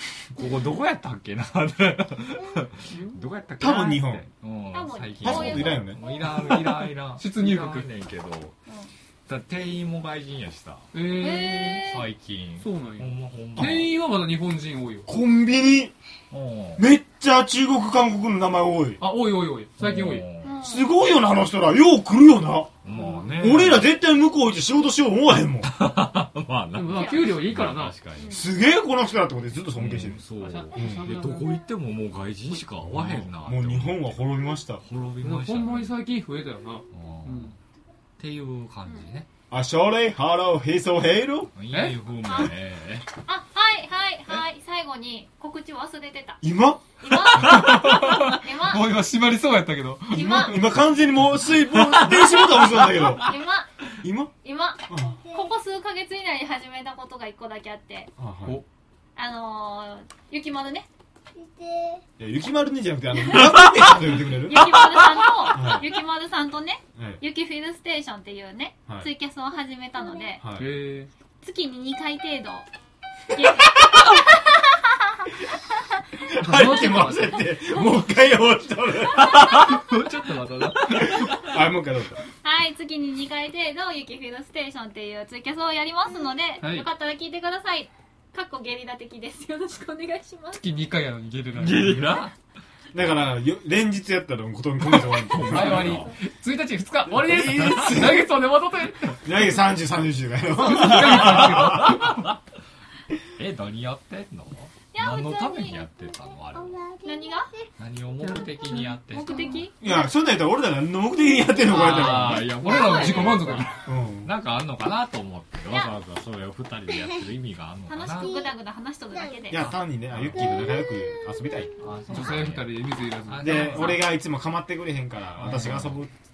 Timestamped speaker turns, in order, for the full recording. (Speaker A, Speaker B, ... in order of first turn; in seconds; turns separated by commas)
Speaker A: 0.3-8.6, Speaker B: 2.9-3.2, Speaker C: 3.6-4.3, Speaker D: 4.7-6.2, Speaker C: 5.2-6.0, Speaker B: 6.5-7.9, Speaker D: 8.7-8.9, Speaker A: 9.3-10.9, Speaker B: 10.9-11.9, Speaker D: 11.1-12.1, Speaker A: 11.8-13.9, Speaker B: 12.6-15.1, Speaker C: 15.1-15.9, Speaker A: 16.3-16.9, Speaker C: 16.8-19.0, Speaker B: 19.0-20.3, Speaker A: 19.8-20.6, Speaker D: 20.4-20.9, Speaker C: 20.6-22.7, Speaker A: 22.8-23.9, Speaker B: 22.9-23.7, Speaker C: 23.4-25.8, Speaker A: 25.6-28.4, Speaker B: 26.7-27.9, Speaker D: 26.9-27.4, Speaker D: 28.1-28.5, Speaker C: 28.3-30.2, Speaker A: 29.7-34.3, Speaker B: 30.4-31.6, Speaker C: 30.7-31.1, Speaker C: 32.9-34.8, Speaker A: 34.8-36.0, Speaker B: 35.2-37.5, Speaker A: 36.9-37.6, Speaker A: 38.2-39.3, Speaker C: 39.5-41.5, Speaker A: 41.5-43.1, Speaker B: 41.7-42.0, Speaker D: 42.2-42.5, Speaker D: 43.2-46.4, Speaker C: 46.4-46.8, Speaker D: 47.0-49.0, Speaker B: 47.1-50.6, Speaker D: 50.1-50.6, Speaker C: 50.1-53.4, Speaker B: 51.5-53.2, Speaker D: 53.2-53.7, Speaker C: 54.0-54.3, Speaker D: 54.4-58.1, Speaker C: 54.9-55.2, Speaker C: 58.2-58.6, Speaker D: 59.2-60.9, Speaker C: 62.2-64.8, Speaker D: 63.2-70.4, Speaker C: 65.5-65.8, Speaker C: 67.0-67.2, Speaker C: 70.4-70.7, Speaker B: 70.6-71.1, Speaker D: 71.4-72.7, Speaker D: 73.3-75.4, Speaker C: 76.2-79.8, Speaker B: 76.3-77.5, Speaker D: 77.6-78.0, Speaker B: 79.3-81.5, Speaker C: 80.9-82.2, Speaker D: 82.3-90.6, Speaker B: 86.6-86.9, Speaker B: 90.5-92.3, Speaker A: 91.6-92.3, Speaker C: 92.9-96.0, Speaker A: 95.3-96.2, Speaker B: 95.3-99.3, Speaker C: 97.1-98.2, Speaker C: 99.2-102.1, Speaker B: 100.5-102.2, Speaker A: 100.7-102.4, Speaker A: 103.4-106.9, Speaker D: 104.9-105.9, Speaker D: 107.0-107.6, Speaker A: 107.8-109.7, Speaker D: 109.1-110.1, Speaker C: 109.8-112.7, Speaker B: 111.6-113.8, Speaker A: 111.6-118.5, Speaker D: 112.7-113.7, Speaker C: 113.8-114.3, Speaker D: 115.7-115.9, Speaker D: 117.9-119.8, Speaker C: 119.5-121.7, Speaker A: 120.1-120.6, Speaker A: 121.8-124.1, Speaker B: 122.1-123.9, Speaker C: 123.4-126.1, Speaker D: 123.8-124.0, Speaker A: 125.4-126.0